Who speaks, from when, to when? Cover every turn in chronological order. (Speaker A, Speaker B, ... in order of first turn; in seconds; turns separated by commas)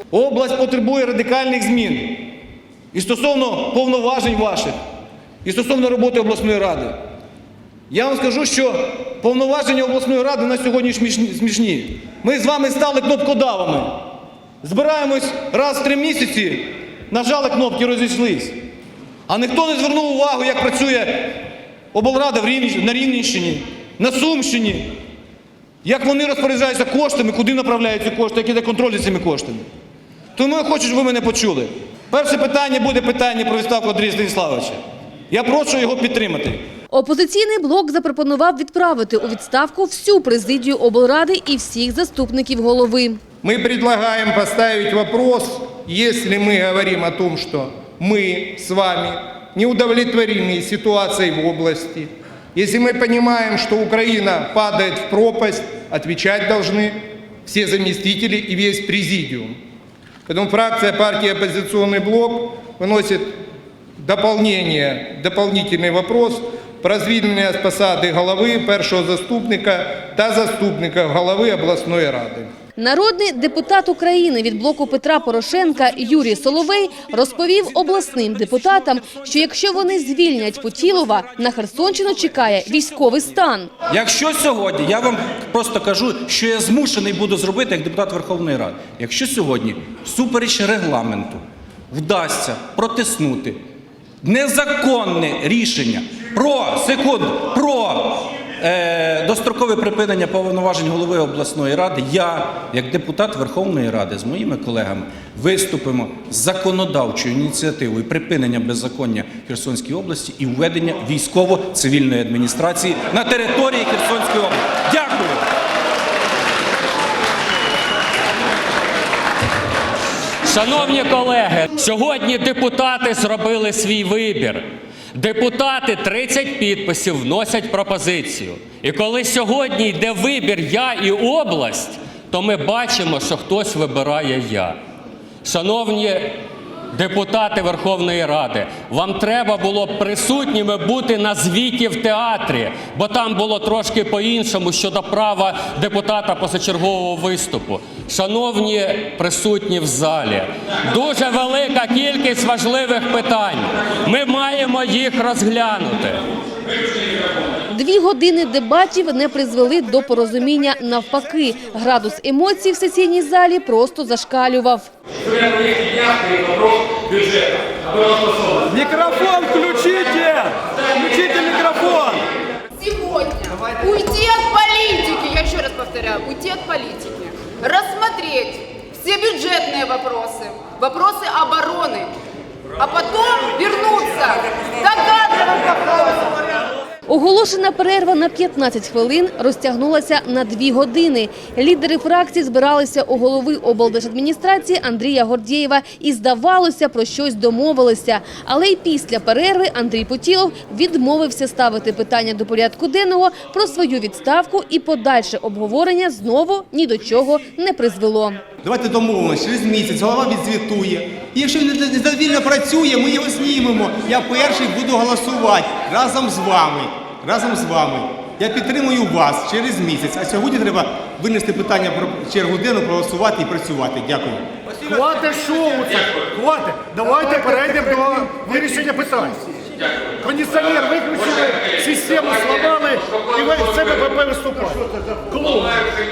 Speaker A: 0.1-2.4, Speaker A: 2.9-4.8, Speaker A: 5.4-7.0, Speaker A: 7.9-18.6, Speaker A: 19.3-25.0, Speaker A: 25.8-29.6, Speaker A: 30.4-36.6, Speaker B: 36.9-43.2, Speaker C: 43.4-59.5, Speaker C: 60.3-63.4, Speaker C: 64.0-72.5, Speaker B: 72.8-83.7, Speaker D: 83.9-91.4, Speaker D: 91.9-93.6, Speaker D: 94.2-115.4, Speaker E: 120.4-134.8, Speaker E: 135.4-136.4, Speaker E: 136.9-156.2, Speaker B: 157.7-164.9, Speaker E: 165.3-168.7, Speaker A: 168.8-170.5, Speaker E: 169.3-169.6, Speaker E: 170.9-171.5, Speaker A: 171.4-172.2, Speaker F: 172.8-182.1, Speaker F: 182.8-186.4, Speaker B: 187.1-208.4, Speaker G: 208.6-224.4, Speaker H: 224.9-229.4, Speaker H: 230.2-231.2, Speaker E: 230.6-234.0, Speaker H: 231.8-235.7